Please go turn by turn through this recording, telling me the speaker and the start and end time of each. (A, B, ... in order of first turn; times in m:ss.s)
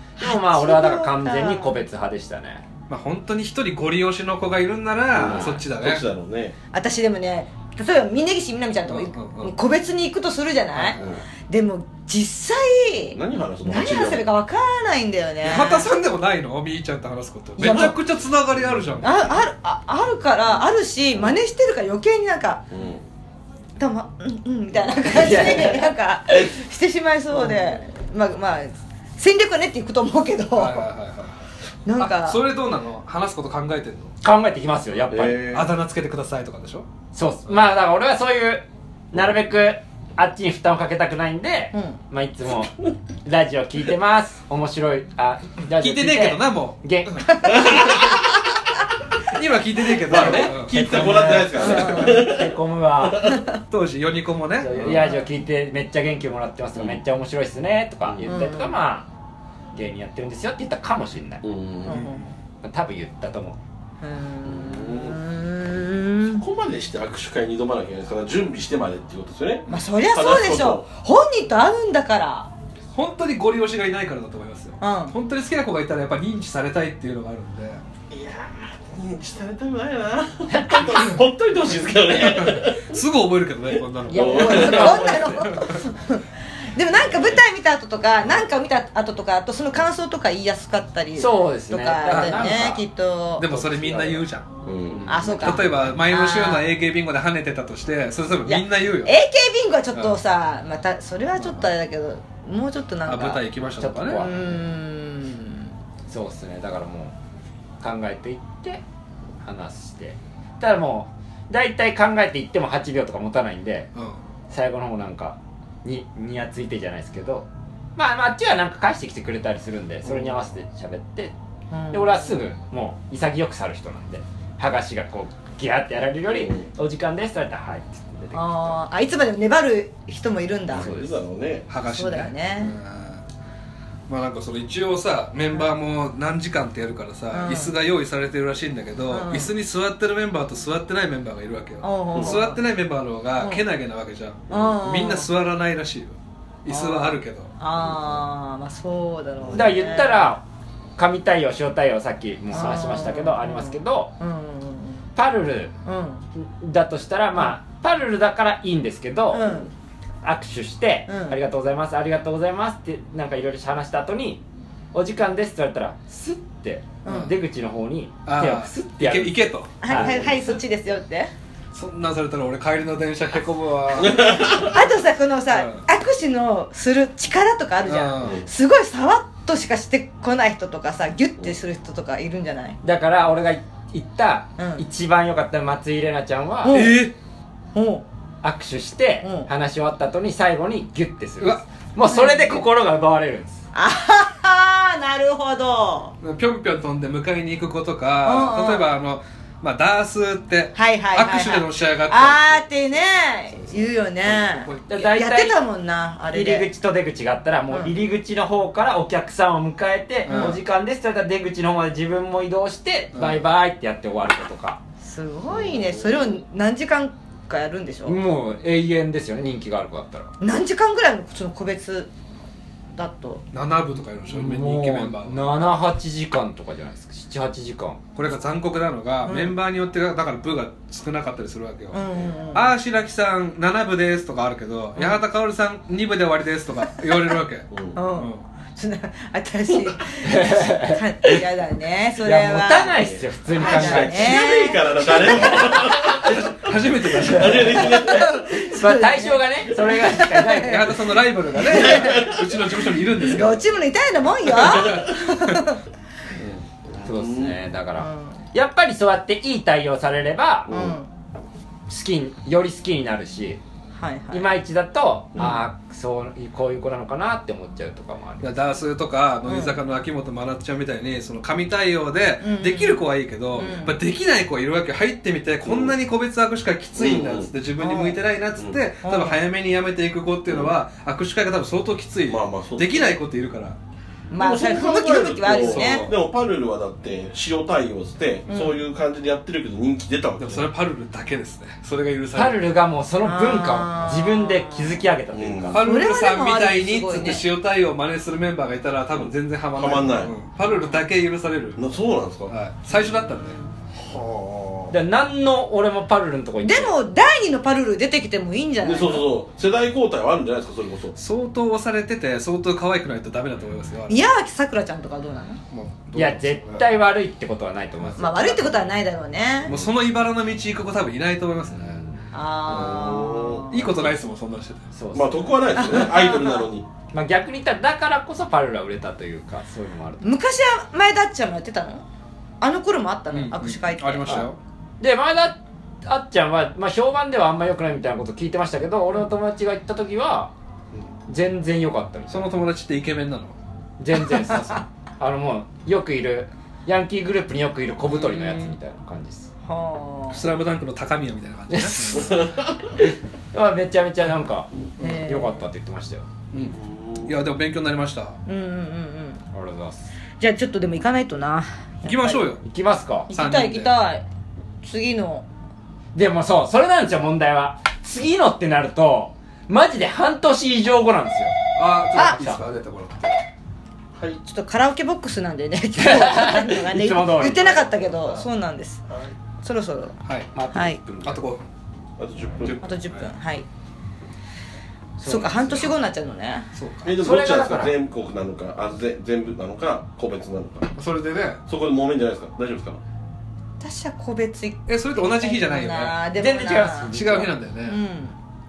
0:00.2-0:01.8 A
0:00.2-0:02.6 B
0:02.9-0:06.0 C
0:05.1-0:06.5 D
0:05.2-0:05.5 B
0:06.7-0:15.9 A
0:08.8-0:09.5 C
0:10.7-0:11.0 B
0:11.0-0:11.2 D
0:13.1-0:14.3 D
0:15.4-0:19.2 C
0:17.6-0:18.0 A
0:19.0-0:22.6 A
0:22.7-0:23.0 D
0:23.8-0:30.9 A
0:25.0-0:25.9 B
0:27.4-0:27.7 B
0:30.5-0:34.1 C
0:31.8-0:32.4 A
0:34.2-0:35.6 B
0:35.1-0:35.7 D
0:35.5-0:36.8 C
0:37.1-0:42.7 B
0:43.2-0:47.7 B
0:45.8-0:46.8 C
0:49.3-0:51.7 C
0:50.1-0:52.5 D
0:50.1-0:53.3 B
0:51.6-0:52.2 A
0:53.7-0:55.0 C
0:54.6-0:59.1 B
0:54.7-0:55.0 D
0:54.9-0:55.2 A
0:56.7-0:57.0 D
0:58.0-0:58.4 D
0:58.2-0:58.8 A
0:59.7-1:01.4 B
1:01.4-1:02.1 D
1:01.8-1:02.2 A
1:02.6-1:03.6 B
1:04.0-1:06.4 A
1:04.4-1:05.2 D
1:06.3-1:10.8 D
1:09.7-1:12.5 A
1:12.9-1:17.8 C
1:14.8-1:15.2 A
1:18.1-1:22.9 D
1:20.5-1:21.0 B
1:22.1-1:25.8 C
1:24.1-1:25.4 D
1:24.1-1:33.5 A
1:24.1-1:25.5 B
1:31.1-1:32.8 B
1:32.0-1:32.7 C
1:33.4-1:39.1 C
1:33.5-1:34.2 B
1:34.6-1:35.2 D
1:35.1-1:36.6 A
1:35.2-1:35.6 B
1:38.4-1:43.4 A
1:43.0-1:44.3 C
1:43.8-1:44.5 B
1:44.2-1:45.7 A
1:46.1-1:47.1 B
1:47.8-1:48.8 B
1:49.4-1:53.9 B
1:53.9-1:54.2 C
1:54.5-2:01.3 B
2:00.0-2:00.4 D
2:01.7-2:02.4 A
2:01.9-2:08.8 B
2:06.3-2:06.7 D
2:08.3-2:10.9 A
2:10.7-2:11.7 D
2:10.7-2:11.2 B
2:11.7-2:13.2 C
2:11.8-2:12.8 A
2:14.1-2:27.5 C
2:17.3-2:17.7 A
2:19.1-2:19.5 A
2:21.8-2:22.6 A
2:23.4-2:23.6 A
2:24.5-2:24.8 D
2:24.5-2:25.3 A
2:26.7-2:30.2 A
2:27.8-2:28.1 D
2:29.4-2:29.8 D
2:29.5-2:30.4 B
2:31.0-2:34.1 B
2:32.5-2:35.1 A
2:35.1-2:35.7 B
2:35.8-2:36.2 A
2:36.4-2:39.6 B
2:39.3-2:39.7 A
2:40.2-2:49.4 B
2:41.1-2:41.4 A
2:47.0-2:47.3 A
2:48.2-2:50.0 C
2:49.8-2:51.3 A
2:49.9-2:50.2 B
2:51.7-2:54.8 C
2:54.0-2:54.8 D
2:54.5-3:02.8 A
2:55.5-2:55.8 C
2:57.8-2:58.4 C
2:58.2-2:58.4 D
3:02.8-3:06.8 B
3:04.6-3:04.8 A
3:06.6-3:07.1 A
3:06.7-3:07.1 C
3:07.7-3:08.0 A
3:08.4-3:13.6 B
3:09.2-3:09.5 A
3:11.4-3:11.6 C
3:12.0-3:12.6 A
3:13.7-3:16.1 A
3:16.2-3:22.8 C
3:18.2-3:18.9 A
3:20.7-3:26.7 A
3:23.5-3:24.9 C
3:24.9-3:25.6 B
3:26.3-3:34.8 B
3:27.7-3:28.0 A
3:30.2-3:30.6 C
3:30.3-3:30.5 A
3:33.1-3:33.4 C
3:35.0-3:38.2 A
3:35.5-3:36.4 D
3:38.0-3:40.3 B
3:40.4-3:42.1 A
3:42.9-3:43.4 A
3:43.5-3:45.6 C
3:44.3-3:48.0 B
3:48.1-3:58.4 C
3:49.2-3:49.6 A
3:51.9-3:52.7 A
3:57.7-3:58.0 D
3:57.9-4:05.7 A
4:00.3-4:01.3 B
4:02.2-4:04.4 B
4:02.9-4:06.4 D
4:05.0-4:06.1 B
4:06.1-4:07.9 C
4:07.2-4:08.7 D
4:07.5-4:07.9 B
4:07.8-4:11.0 A
4:08.5-4:10.8 B
4:10.5-4:13.7 C
4:11.6-4:12.8 D
4:11.7-4:12.2 A
4:13.2-4:15.8 A
4:14.6-4:15.5 C
4:16.4-4:17.6 D
4:17.0-4:20.7 B
4:18.0-4:18.4 A
4:20.7-4:21.0 D
4:20.7-4:21.1 A
4:21.9-4:23.6 B
4:23.9-4:24.5 A
4:24.3-4:28.6 B
4:25.3-4:25.6 D
4:28.4-4:43.8 C
4:29.4-4:29.8 A
4:32.4-4:34.0 A
4:35.6-4:35.9 D
4:37.0-4:37.5 D
4:37.8-4:38.2 A
4:39.0-4:39.4 A
4:40.5-4:40.7 D
4:42.3-4:43.1 D
4:44.3-4:46.1 A
4:44.4-4:50.7 D
4:45.6-4:46.1 C
4:48.5-4:48.8 A
4:50.4-4:52.7 C
4:52.3-4:55.8 B
4:53.2-4:55.0 A
4:55.3-4:55.8 D
4:55.7-5:01.8 C
4:55.8-4:57.4 A
4:59.1-5:00.3 D
5:00.6-5:01.0 A
5:01.8-5:02.5 D
5:02.5-5:03.6 C
5:02.9-5:03.6 A
5:04.0-5:05.0 D
5:04.9-5:06.9 B
5:06.6-5:09.3 A
5:08.8-5:11.1 D
5:11.2-5:14.2 C
5:14.1-5:15.6 A
5:15.7-5:16.9 C
5:16.1-5:18.4 B
5:18.0-5:18.6 C
5:18.2-5:19.7 A
5:19.6-5:22.0 C
5:22.3-5:24.0 A
5:22.7-5:23.7 D
5:23.7-5:24.9 C
5:24.9-5:26.0 B
5:25.1-5:26.8 D
5:25.8-5:26.7 A
5:27.1-5:30.3 B
5:30.2-5:32.0 A
5:32.6-5:34.3 A
5:33.3-5:34.6 C
5:35.0-5:40.5 B
5:41.3-5:42.5 B
5:42.3-5:43.6 C
5:44.0-5:49.5 B
5:48.1-5:48.7 A
5:49.6-5:50.4 A
5:50.3-5:52.4 C
5:51.7-5:52.4 B
5:52.1-5:52.7 D
5:53.0-5:56.2 B
5:55.0-5:55.7 A
5:56.5-5:58.4 C
5:56.7-5:57.4 D
5:58.4-5:59.4 A
5:59.5-6:00.1 B
6:00.4-6:02.5 A
6:02.0-6:02.6 C
6:02.6-6:03.3 B
6:03.3-6:04.2 A
6:03.3-6:04.0 C
6:04.8-6:05.5 A
6:06.1-6:11.5 B
6:11.8-6:13.4 C
6:12.1-6:12.6 B
6:14.4-6:19.0 A
6:16.0-6:17.6 B
6:17.4-6:18.4 D
6:19.6-6:20.2 A
6:20.2-6:20.5 C
6:20.5-6:21.4 B
6:20.7-6:21.0 A
6:21.2-6:21.6 C
6:22.2-6:22.9 D
6:22.8-6:23.6 A
6:25.2-6:25.9 B
6:25.2-6:26.7 A
6:26.7-6:27.1 C
6:27.0-6:30.9 D
6:27.2-6:27.9 B
6:31.0-6:31.6 C
6:31.7-6:33.0 D
6:33.8-6:37.1 A
6:34.9-6:36.2 C
6:36.4-6:37.5 B
6:37.1-6:38.0 C
6:37.8-6:38.4 A